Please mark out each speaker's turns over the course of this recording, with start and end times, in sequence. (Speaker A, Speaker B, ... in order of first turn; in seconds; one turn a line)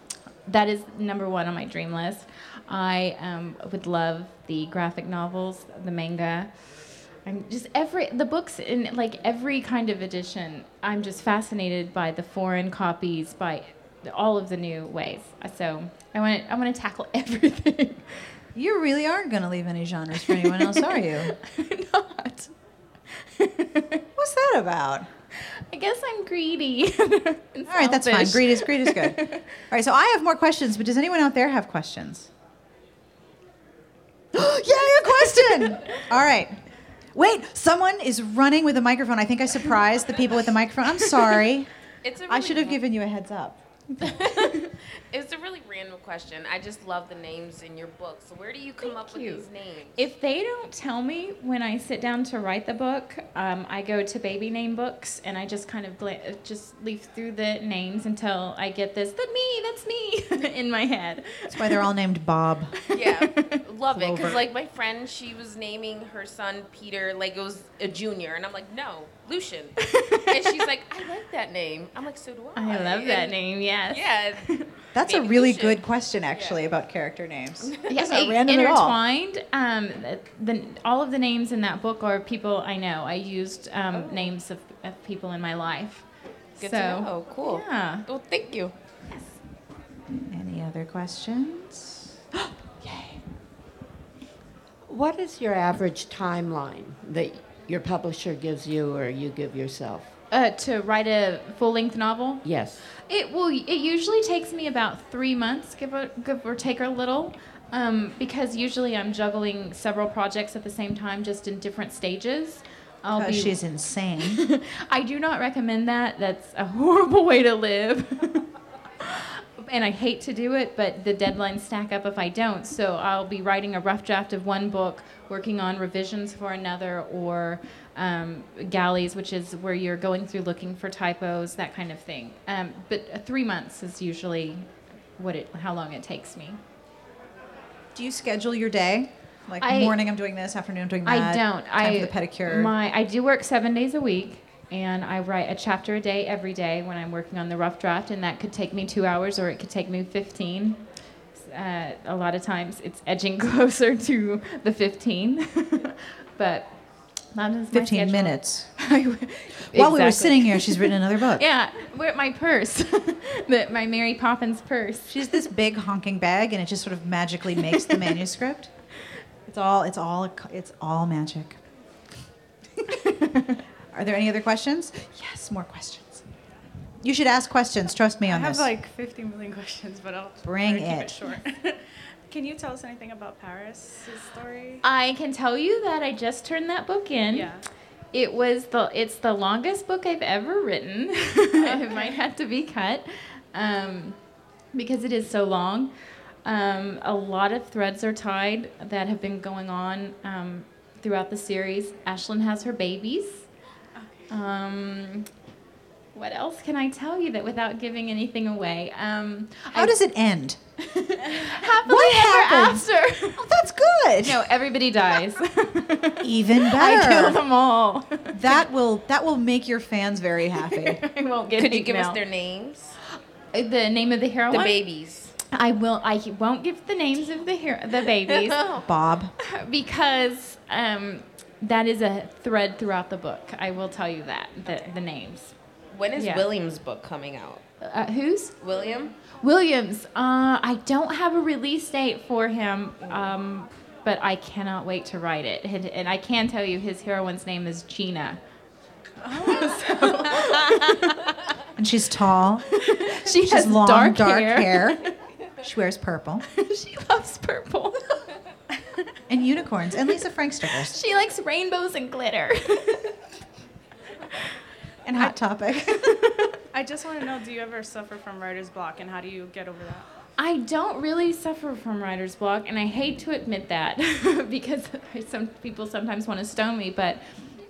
Speaker A: 0.5-6.7
Speaker A: 7.2-18.2
Speaker B: 18.5-21.3
Speaker A: 20.2-22.5
Speaker A: 23.1-24.0
Speaker B: 24.1-25.1
Speaker A: 25.5-29.4
Speaker B: 27.7-32.3
Speaker B: 34.3-36.6
Speaker A: 35.0-35.8
Speaker B: 37.1-41.7
Speaker C: 42.0-42.8
Speaker B: 42.2-44.1
Speaker C: 44.0-50.1
Speaker A: 48.8-61.9
Speaker B: 61.5-62.7
Speaker A: 62.8-63.6
Speaker C: 62.9-73.3
Speaker B: 63.9-64.5
Speaker A: 69.8-70.6
Speaker A: 72.5-74.6
Speaker C: 73.9-74.5
Speaker B: 74.9-79.0
Speaker C: 75.0-76.6
Speaker C: 77.6-78.3
Speaker A: 77.9-86.0
Speaker C: 83.9-84.3
Speaker C: 86.6-88.7
Speaker A: 86.6-88.0
Speaker B: 90.3-93.2
Speaker D: 94.9-100.1
Speaker A: 100.3-102.4
Speaker D: 102.4-102.8
Speaker A: 103.0-113.7
Speaker B: 113.1-114.4
Speaker A: 114.2-118.5
Speaker A: 119.0-136.6
Speaker B: 137.9-142.7
Speaker A: 139.6-140.0
Speaker A: 141.1-150.8
Speaker A: 151.4-156.7
Speaker A: 157.3-165.3
Speaker B: 157.7-158.7
Speaker B: 159.7-161.4
Speaker B: 165.1-168.7
Speaker B: 169.5-171.6
Speaker A: 173.2-173.5
Speaker B: 173.9-176.2
Speaker B: 177.0-178.7
Speaker E: 178.2-184.8
Speaker B: 180.4-181.2
Speaker A: 184.8-187.6
Speaker E: 187.3-187.6
Speaker A: 188.1-194.2
Speaker E: 191.6-192.2
Speaker A: 194.7-195.9
Speaker A: 196.4-203.5
Speaker A: 204.3-205.3
Speaker A: 206.1-209.9
Speaker B: 209.7-210.6
Speaker A: 210.8-213.6
Speaker B: 211.8-214.5
Speaker A: 214.2-218.6
Speaker B: 216.2-217.4
Speaker B: 218.3-221.0
Speaker A: 220.6-222.2
Speaker C: 221.6-222.9
Speaker A: 223.5-224.8
Speaker C: 224.5-225.3
Speaker A: 225.5-228.6
Speaker C: 228.2-228.8
Speaker B: 228.8-229.3
Speaker A: 229.4-235.5
Speaker C: 235.9-237.6
Speaker A: 236.2-236.5
Speaker A: 237.8-238.6
Speaker C: 238.6-239.1
Speaker A: 239.2-248.4
Speaker A: 249.2-251.3
Speaker E: 249.3-250.0
Speaker B: 251.8-252.7
Speaker A: 252.8-255.1
Speaker B: 253.2-255.0
Speaker B: 255.6-256.4
Speaker A: 256.5-258.2
Speaker B: 259.3-260.9
Speaker A: 260.8-263.1
Speaker B: 265.0-266.5
Speaker E: 266.7-270.1
Speaker A: 270.4-277.2